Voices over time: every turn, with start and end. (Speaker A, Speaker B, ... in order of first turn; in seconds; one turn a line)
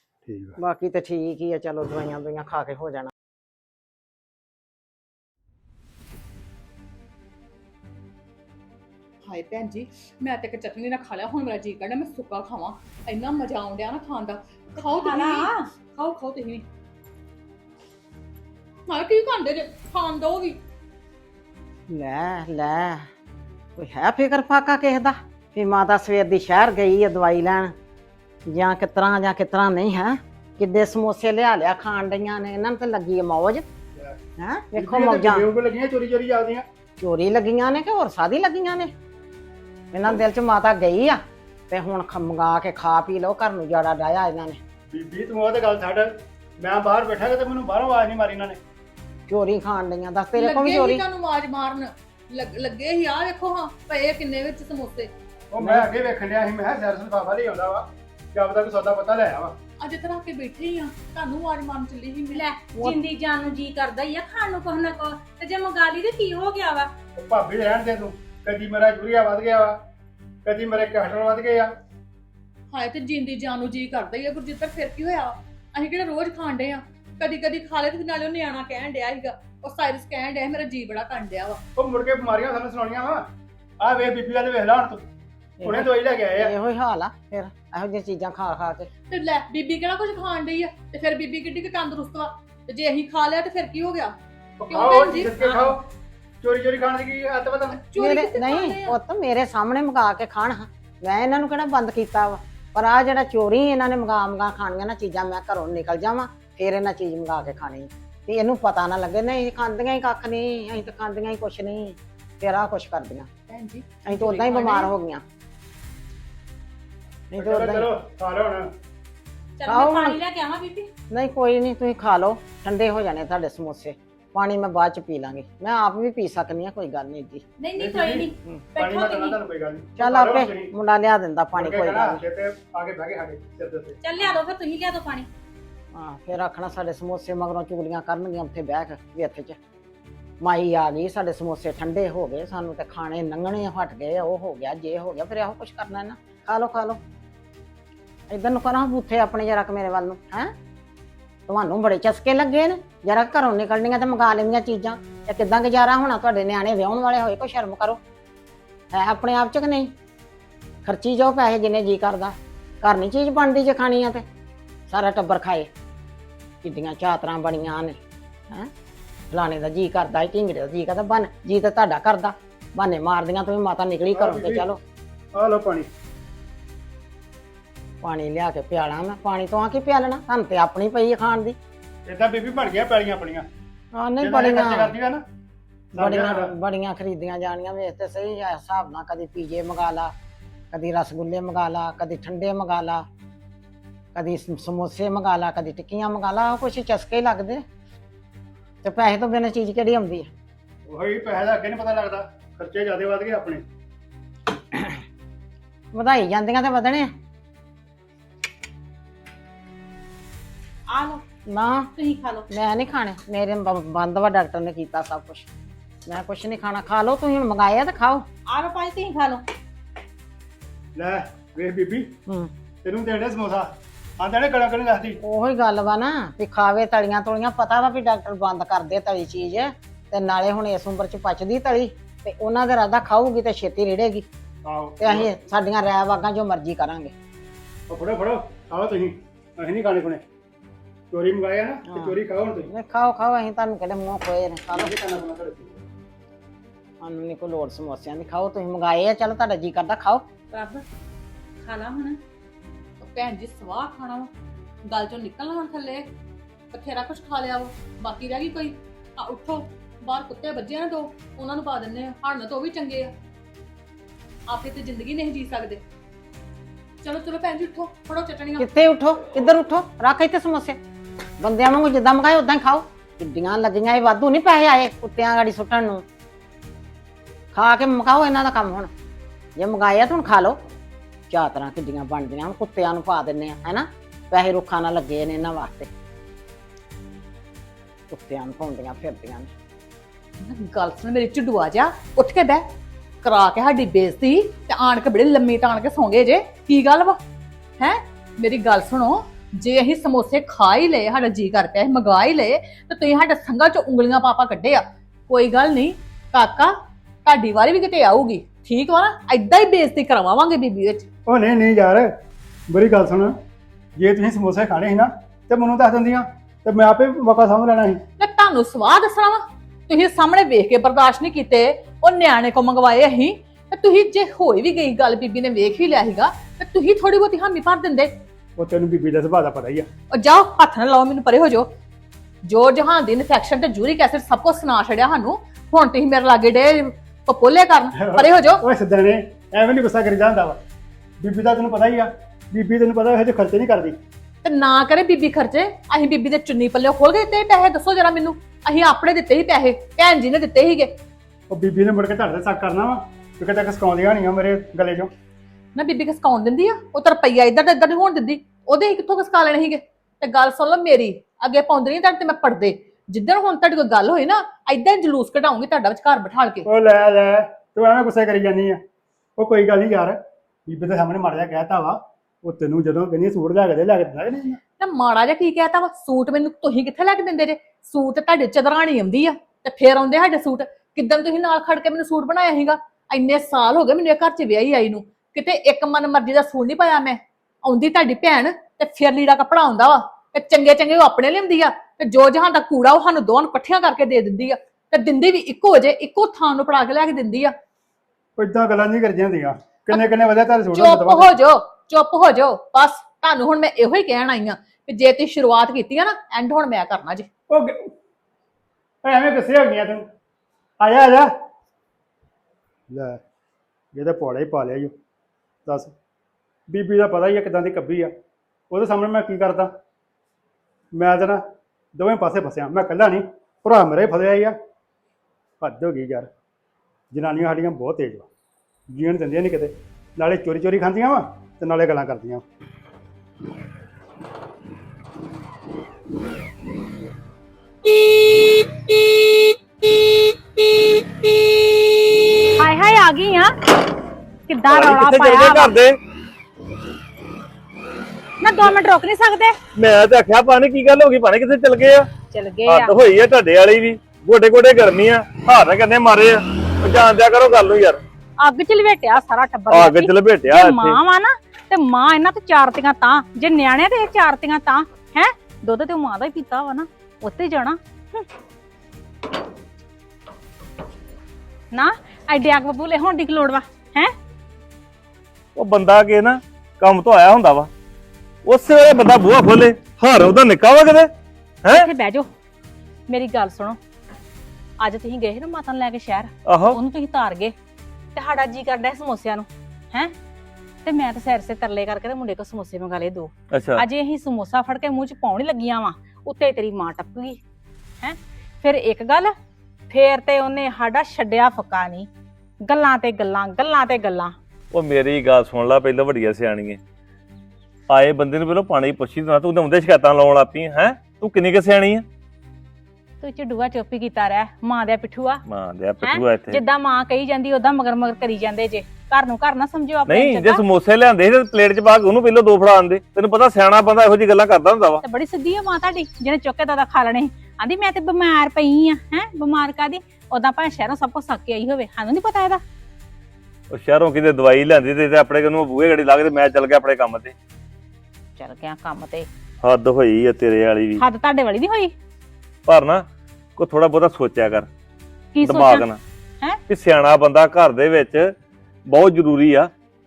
Speaker A: 0.2-0.6
Speaker B: 0.6-3.1
Speaker C: 9.2-16.6
Speaker D: 14.8-15.7
Speaker C: 18.9-20.6
Speaker B: 21.9-23.1
Speaker B: 23.8-27.7
Speaker B: 28.5-33.7
Speaker B: 34.4-35.4
Speaker A: 34.8-36.6
Speaker B: 37.0-38.9
Speaker B: 39.9-44.6
Speaker A: 44.9-48.6
Speaker B: 49.3-51.0
Speaker C: 50.3-55.1
Speaker A: 55.5-59.5
Speaker B: 55.6-55.9
Speaker C: 59.8-62.6
Speaker D: 62.7-66.9
Speaker A: 67.2-69.8
Speaker A: 70.4-71.7
Speaker C: 72.7-81.6
Speaker A: 81.8-83.2
Speaker A: 83.8-85.0
Speaker B: 85.6-88.9
Speaker A: 85.6-86.5
Speaker C: 89.1-94.2
Speaker A: 94.6-95.8
Speaker C: 94.7-95.8
Speaker A: 96.4-97.8
Speaker C: 97.7-99.0
Speaker B: 97.9-113.3
Speaker C: 113.5-114.9
Speaker B: 114.0-115.2
Speaker B: 117.3-117.9
Speaker A: 117.3-118.7
Speaker D: 119.6-120.9
Speaker B: 119.7-120.2
Speaker B: 121.1-127.4
Speaker D: 127.6-129.4
Speaker A: 127.8-130.7
Speaker B: 130.0-132.2
Speaker A: 131.5-134.0
Speaker D: 134.0-135.3
Speaker B: 135.9-139.6
Speaker B: 140.4-147.0
Speaker B: 148.3-150.5
Speaker B: 151.5-158.0
Speaker B: 158.9-159.9
Speaker B: 160.8-164.2
Speaker B: 164.9-165.7
Speaker B: 166.6-168.0
Speaker B: 169.3-174.8
Speaker A: 174.1-174.7
Speaker A: 175.3-175.9
Speaker B: 178.0-181.6
Speaker A: 182.1-183.4
Speaker B: 183.9-184.9
Speaker A: 184.2-185.2
Speaker A: 185.9-186.5
Speaker B: 186.0-190.1
Speaker B: 190.7-193.0
Speaker B: 194.1-197.6
Speaker B: 198.8-200.3
Speaker A: 200.9-203.6
Speaker B: 205.9-207.1
Speaker D: 210.9-211.2
Speaker B: 211.5-211.9
Speaker D: 212.0-212.5
Speaker B: 212.5-215.5
Speaker B: 216.1-218.2
Speaker D: 218.5-219.4
Speaker A: 220.9-222.1
Speaker A: 222.8-225.2
Speaker B: 225.2-234.2
Speaker A: 234.6-235.3
Speaker B: 235.0-237.1
Speaker A: 237.9-240.2
Speaker A: 241.1-242.7
Speaker B: 241.9-242.2
Speaker B: 242.7-244.9
Speaker A: 244.7-245.8
Speaker B: 247.0-250.2
Speaker D: 250.5-250.8
Speaker D: 251.6-252.2
Speaker C: 253.0-254.3
Speaker C: 254.9-256.1
Speaker C: 256.7-263.1
Speaker C: 264.5-265.8
Speaker C: 267.0-268.7
Speaker B: 268.6-270.8
Speaker B: 271.4-276.0
Speaker B: 277.5-278.9
Speaker B: 279.6-280.6
Speaker B: 281.3-285.9
Speaker B: 288.1-289.5
Speaker C: 290.4-292.7
Speaker C: 293.2-297.2
Speaker C: 297.8-306.7
Speaker C: 307.2-311.1
Speaker A: 311.3-312.1
Speaker A: 312.7-313.4
Speaker A: 314.0-318.0
Speaker C: 318.2-328.1
Speaker A: 328.6-329.9
Speaker C: 330.1-331.7
Speaker C: 332.5-338.6
Speaker A: 337.9-340.6
Speaker A: 341.2-344.0
Speaker C: 344.4-350.9
Speaker A: 351.5-355.1
Speaker C: 355.8-366.7
Speaker A: 366.6-368.8
Speaker A: 369.4-374.6
Speaker C: 374.6-397.5
Speaker A: 398.4-401.3
Speaker C: 400.7-407.3
Speaker A: 407.5-407.9
Speaker A: 409.0-410.0
Speaker A: 410.8-411.3
Speaker A: 412.9-413.2
Speaker A: 413.9-414.9
Speaker A: 415.6-415.9
Speaker A: 416.7-418.1
Speaker A: 418.7-419.7
Speaker A: 420.9-421.4
Speaker A: 421.9-424.5
Speaker A: 425.6-426.3
Speaker A: 427.1-428.3
Speaker A: 428.9-432.4
Speaker D: 442.6-443.5
Speaker D: 444.5-445.7
Speaker E: 444.7-445.9
Speaker D: 448.4-449.6
Speaker E: 449.7-452.1
Speaker D: 452.3-452.9
Speaker E: 452.6-458.0
Speaker D: 458.4-468.3
Speaker E: 459.7-461.0
Speaker D: 471.7-474.1
Speaker E: 475.6-477.7
Speaker E: 478.4-481.1
Speaker D: 481.7-482.3
Speaker D: 483.1-483.8
Speaker D: 484.8-487.5
Speaker E: 486.4-486.8
Speaker D: 488.1-490.1
Speaker D: 490.8-497.4
Speaker E: 493.5-493.8
Speaker D: 498.0-499.3
Speaker D: 499.9-502.1
Speaker D: 502.6-504.3
Speaker E: 504.7-506.8
Speaker E: 507.9-512.0
Speaker D: 513.2-515.4
Speaker E: 515.5-516.6
Speaker D: 516.0-520.6
Speaker E: 520.1-525.0
Speaker D: 525.0-532.6
Speaker E: 533.7-537.3
Speaker D: 538.4-539.3
Speaker E: 539.6-541.0
Speaker D: 541.0-541.9
Speaker E: 542.7-543.0
Speaker E: 543.6-544.7
Speaker D: 545.3-545.9
Speaker E: 545.4-546.0
Speaker E: 546.7-548.3
Speaker E: 548.9-549.7